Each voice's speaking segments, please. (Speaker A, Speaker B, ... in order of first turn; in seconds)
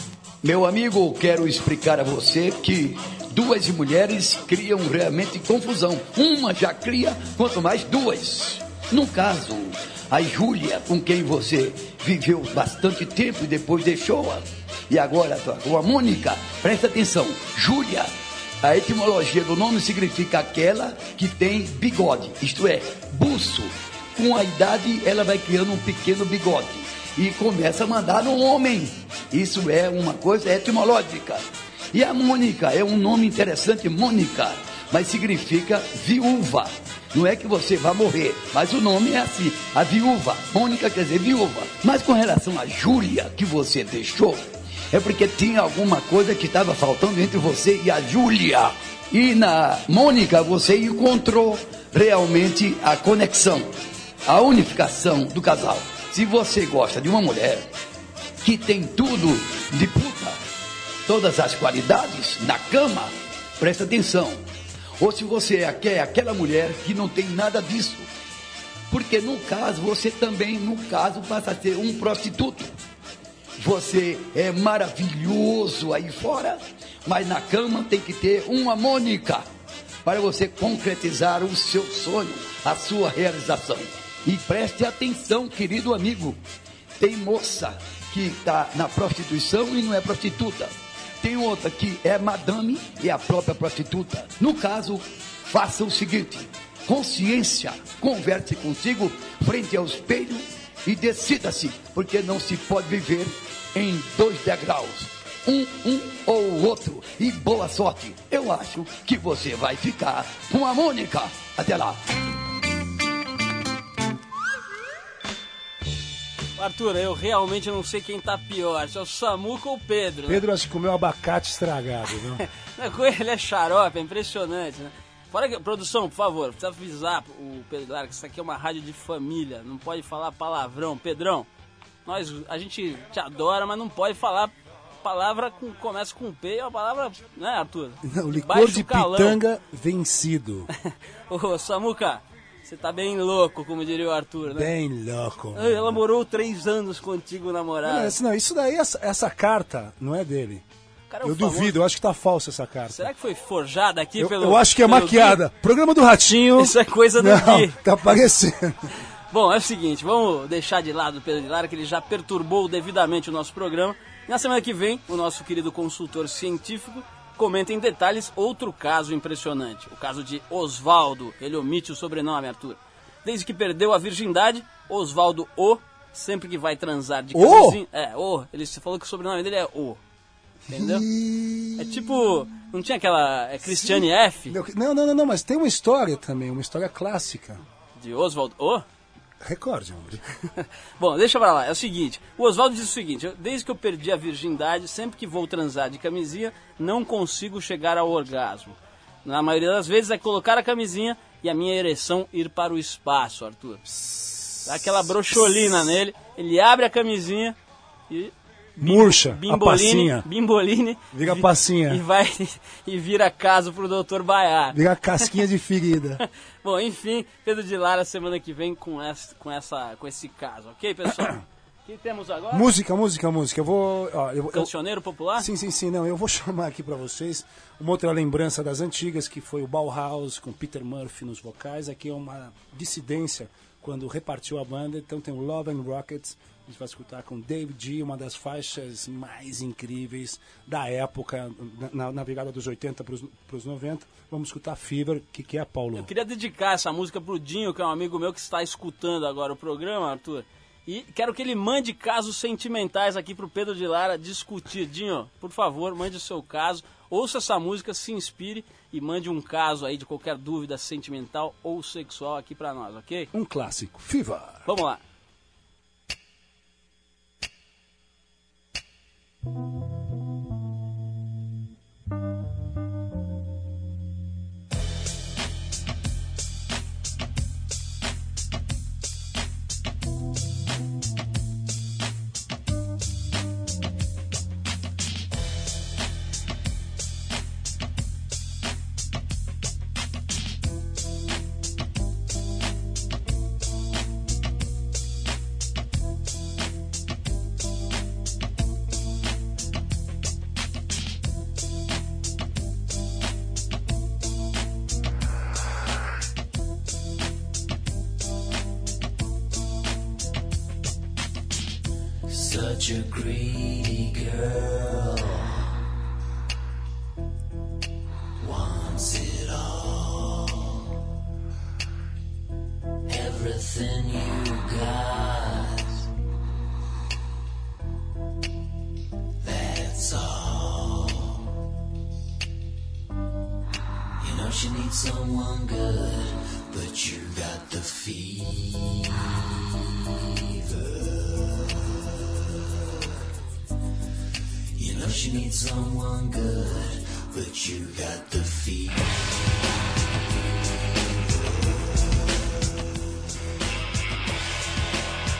Speaker A: 0.4-53.7, 54.2-57.7, 58.4-60.4, 61.0-64.4, 65.0-68.1, 68.9-72.8, 73.6-79.5, 80.0-86.4, 87.0-112.0
Speaker B: 116.6-120.4, 122.4-131.5, 132.0-139.4, 140.9-144.7, 145.5-148.2, 151.1-151.8, 152.9-155.4, 156.4-158.1, 159.3-180.0, 180.7-181.0, 181.8-184.6, 187.9-188.8, 190.5-203.8, 204.6-207.6, 208.1-215.3, 216.6-221.3, 221.8-222.7, 224.5-225.5, 245.9-263.3, 264.6-265.0
Speaker C: 120.3-122.4, 138.0-140.7, 144.5-146.0, 147.8-150.6, 151.2-153.1, 154.2-158.8, 177.3-177.8, 180.7-182.3, 183.7-187.6, 189.4-190.2, 203.9-205.7, 208.8-210.2, 211.1-212.0, 214.7-216.2, 221.1-221.4, 222.5-224.7, 225.4-246.1, 263.3-264.7
Speaker D: 312.3-315.8, 318.4-320.8, 323.1-326.1, 329.4-331.4, 334.2-342.0, 344.7-352.3